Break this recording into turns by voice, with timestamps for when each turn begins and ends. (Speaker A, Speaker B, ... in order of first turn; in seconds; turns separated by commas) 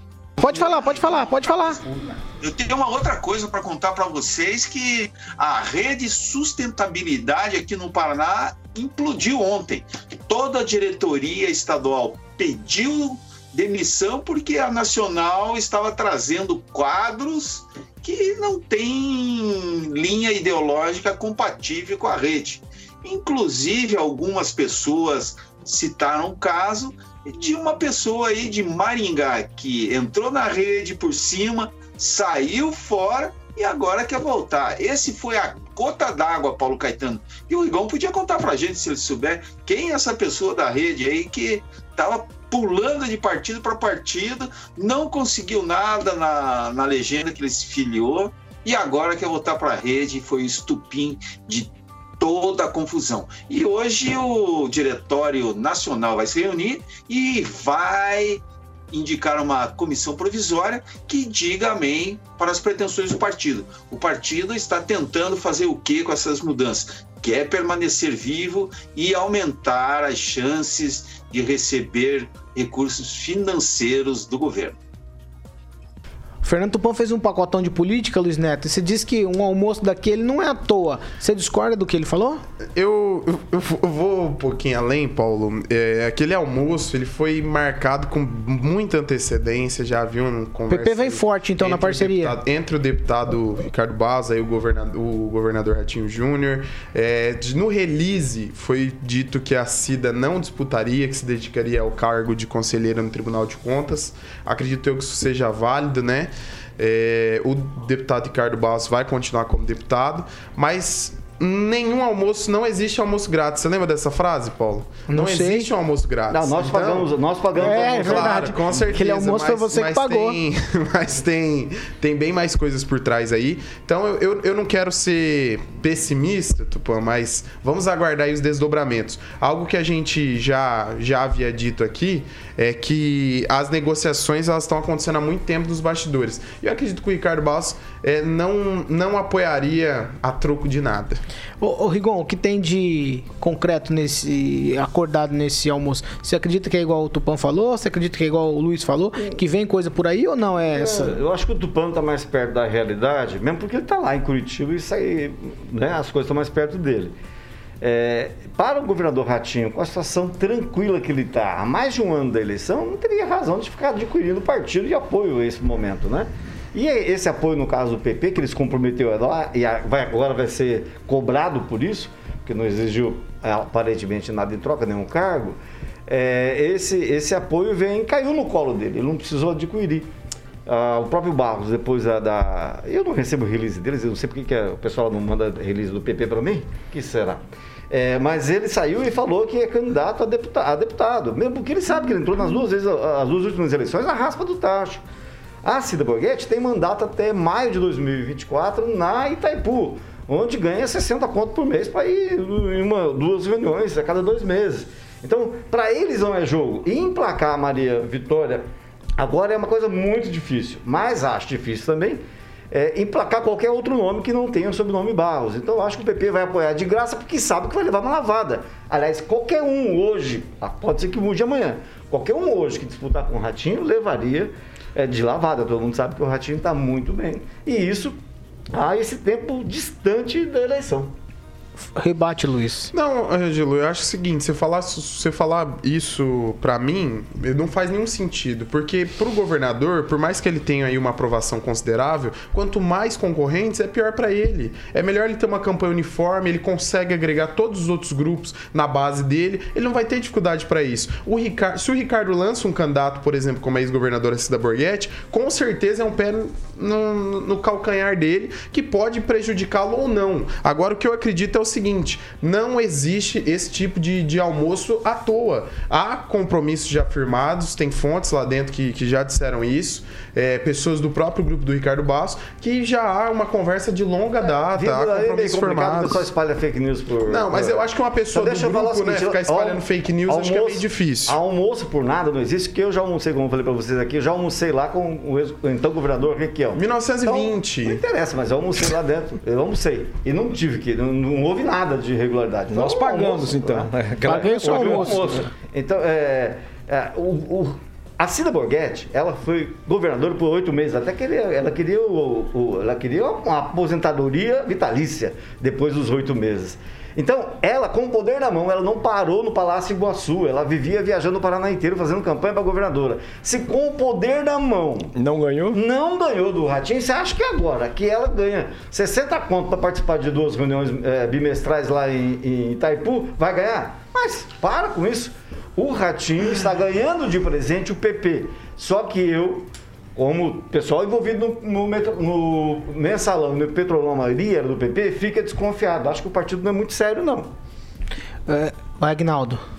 Speaker A: 0.4-1.8, Speaker B: 0.5-74.8, Speaker A: 76.4-82.4, Speaker C: 82.8-141.2, Speaker A: 90.7-92.4, Speaker A: 115.1-115.7, Speaker D: 116.3-118.9, Speaker A: 117.6-120.4, Speaker A: 141.6-151.2, Speaker D: 150.7-157.2, Speaker D: 157.8-180.1, Speaker D: 180.7-195.0, Speaker D: 195.6-228.2, Speaker D: 228.7-231.1, Speaker A: 231.9-232.9, Speaker C: 232.9-276.3, Speaker D: 274.4-315.1, Speaker C: 277.3-281.4, Speaker C: 286.8-288.0, Speaker E: 292.7-295.3, Speaker A: 294.2-295.5, Speaker E: 315.2-315.8, Speaker D: 315.7-337.5, Speaker A: 338.5-339.6